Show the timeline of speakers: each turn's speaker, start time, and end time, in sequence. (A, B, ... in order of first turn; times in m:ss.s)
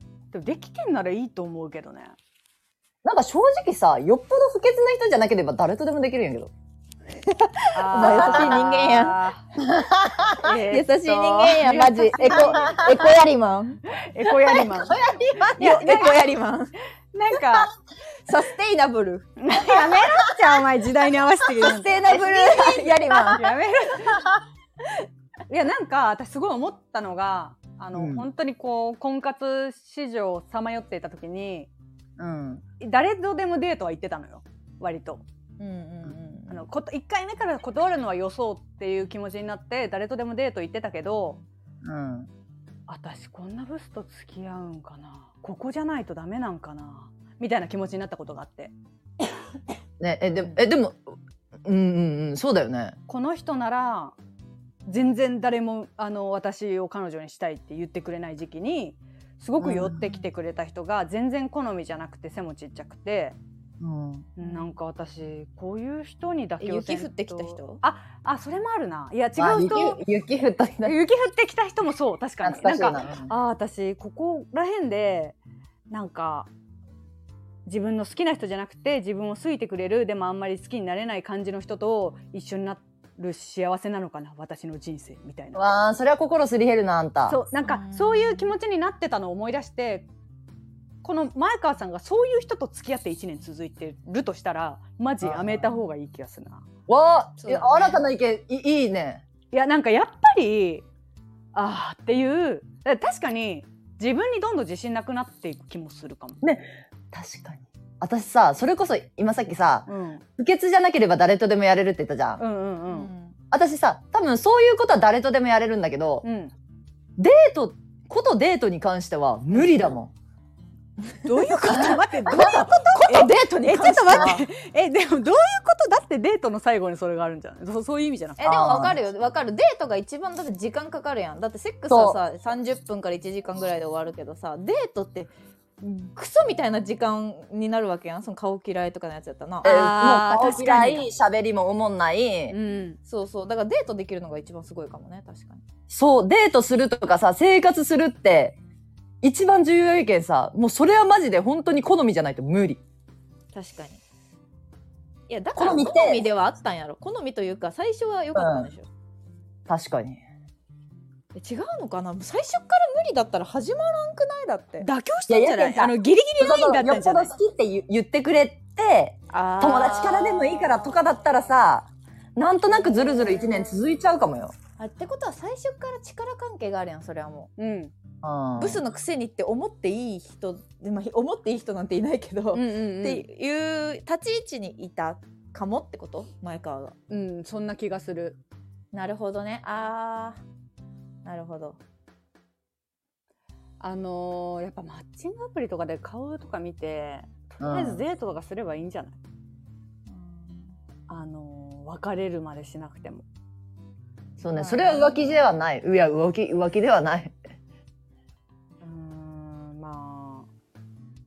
0:00.3-0:02.2 A
0:03.0-0:06.5 B
0:07.7-0:09.4 A
0:07.9-0:09.2 C
0:08.0-0:08.6 B
0:09.6-0:10.7 B
0:10.4-0:12.7 A
0:10.7-0:13.8 C
0:11.5-0:13.0 B
0:14.0-0:15.0 A
0:14.5-0:15.6 B
0:15.4-0:16.7 C
0:15.6-0:16.3 A
0:17.1-0:17.7 A
0:18.3-0:19.3 C
0:19.4-0:22.1 A
0:21.6-0:23.5 C
0:21.6-0:22.9 B
0:23.2-0:24.2 A
0:24.1-0:24.4 B
0:25.5-0:31.7 A
0:27.9-0:28.3 B
0:32.2-0:32.6 B
0:32.8-0:35.2 A
0:35.6-0:36.6 C
0:36.5-0:41.4 A
0:41.8-0:42.3 B
0:42.9-0:48.7 A
0:50.0-0:51.0 B
0:51.6-0:53.0 B
0:53.1-0:54.2 A
0:54.9-1:03.4 A
0:59.6-1:00.0 B
1:03.8-1:04.3 B
1:04.4-1:10.0 A
1:04.4-1:04.7 C
1:06.6-1:07.8 C
1:09.4-1:11.0 B
1:10.8-1:15.4 A
1:12.4-1:13.3 B
1:15.9-1:16.5 A
1:17.7-1:25.6 A
1:25.6-1:27.4 B
1:27.3-1:30.1 A
1:27.6-1:28.5 C
1:31.0-1:36.6 A
1:35.2-1:35.6 B
1:36.9-1:39.2 B
1:37.4-1:38.0 C
1:39.5-1:40.8 A
1:41.5-1:46.4 A
1:46.4-1:52.4 B
1:49.9-1:50.2 A
1:52.4-1:53.1 A
1:52.9-1:53.4 C
1:53.5-1:56.2 B
1:56.2-1:56.5 A
1:57.2-2:00.1 B
2:01.2-2:08.5 A
2:01.7-2:02.7 B
2:02.3-2:04.4 C
2:04.0-2:04.4 B
2:08.4-2:19.8 C
2:08.4-2:09.0 B
2:11.9-2:12.2 B
2:19.6-2:22.6 B
2:19.6-2:21.0 A
2:22.5-2:23.0 A
2:23.0-2:25.6 C
2:25.9-2:28.6 B
2:29.2-2:32.8 B
2:33.5-2:34.0 C
2:35.3-2:38.9 C
2:35.6-2:36.3 B
2:38.4-2:38.7 B
2:39.7-2:40.2 B
2:41.4-2:44.9 C
2:44.8-2:47.3 A
2:45.3-2:54.5 B
2:49.3-2:51.0 C
2:52.7-2:53.8 C
2:54.8-2:57.5 C
2:57.6-2:57.9 A
2:58.2-2:58.8 B
2:58.6-3:07.0 C
3:02.5-3:03.2 A
3:07.1-3:08.4 A
3:08.9-3:10.4 C
3:11.2-3:11.8 C
3:13.8-3:19.2 A
3:17.6-3:18.0 B
3:20.1-3:20.7 C
3:21.1-3:23.2 A
3:24.4-3:27.3 B
3:24.5-3:25.4 C
3:28.8-3:30.5 A